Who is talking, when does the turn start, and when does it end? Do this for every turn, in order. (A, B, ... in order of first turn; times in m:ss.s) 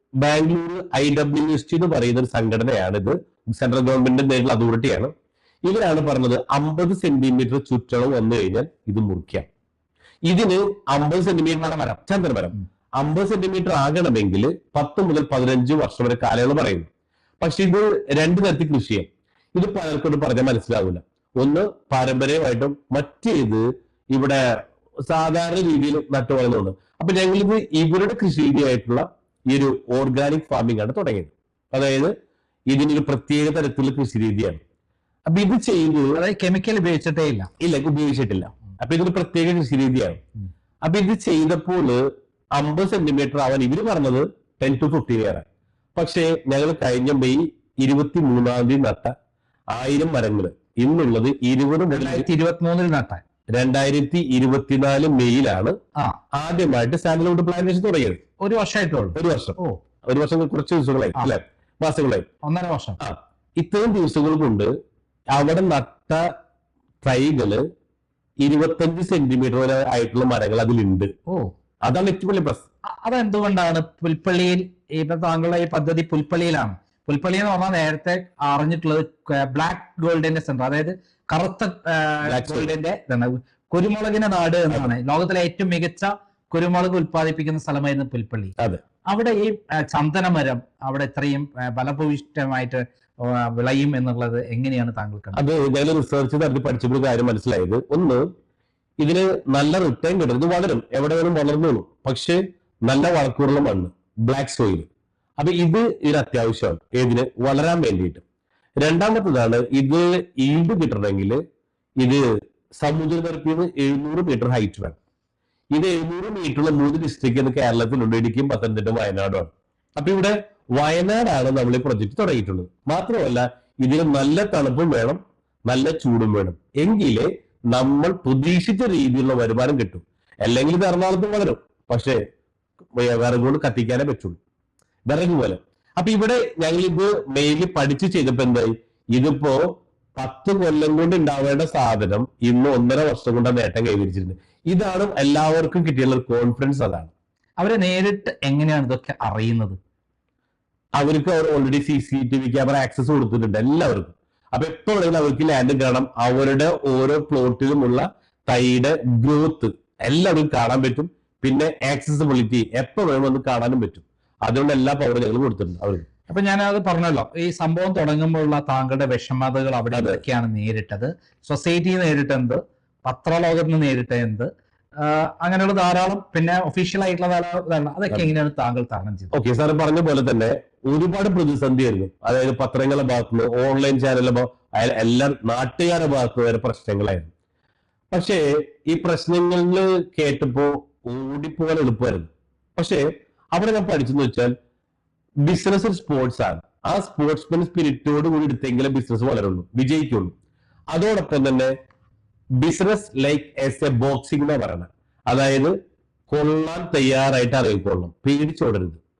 0:00.2-0:09.5 A
0:10.3-0:16.9 A
0:11.5-0:12.0 B
0:17.4-0:24.4 A
0:25.1-0:32.1 A
0:32.7-0:34.6 A
0:35.3-0:36.2 A
0:36.1-0:37.5 B
0:37.6-0:40.2 A
0:40.8-0:42.0 A
0:42.6-0:45.4 A
0:46.0-0:49.1 A
0:49.7-0:52.2 A
0:51.9-0:53.2 B
0:53.5-0:55.8 A
0:56.3-0:58.2 A
0:58.4-0:59.8 B
0:59.2-1:02.3 A
1:02.4-1:03.0 B
1:03.0-1:04.7 A
1:05.3-1:06.2 A
1:07.0-1:07.6 A
1:08.4-1:11.1 A
1:11.8-1:12.6 A
1:13.0-1:28.5 B
1:22.2-1:22.7 A
1:29.1-1:35.4 B
1:35.4-1:38.2 A
1:39.0-1:44.9 A
1:45.4-1:48.2 A
1:48.8-1:51.4 A
1:52.8-1:55.0 A
1:55.7-2:12.2 A
2:12.9-2:14.4 A
2:15.1-2:19.6 A
2:20.2-2:27.1 A
2:27.6-2:29.8 B
2:31.0-2:46.1 A
2:46.3-2:54.5 B
2:49.9-2:50.2 A
2:55.0-2:59.3 B
2:59.3-3:07.3 A
3:08.1-3:14.5 A
3:15.4-3:20.3 A
3:20.9-3:21.7 A
3:22.6-3:25.7 A
3:26.3-3:29.0 A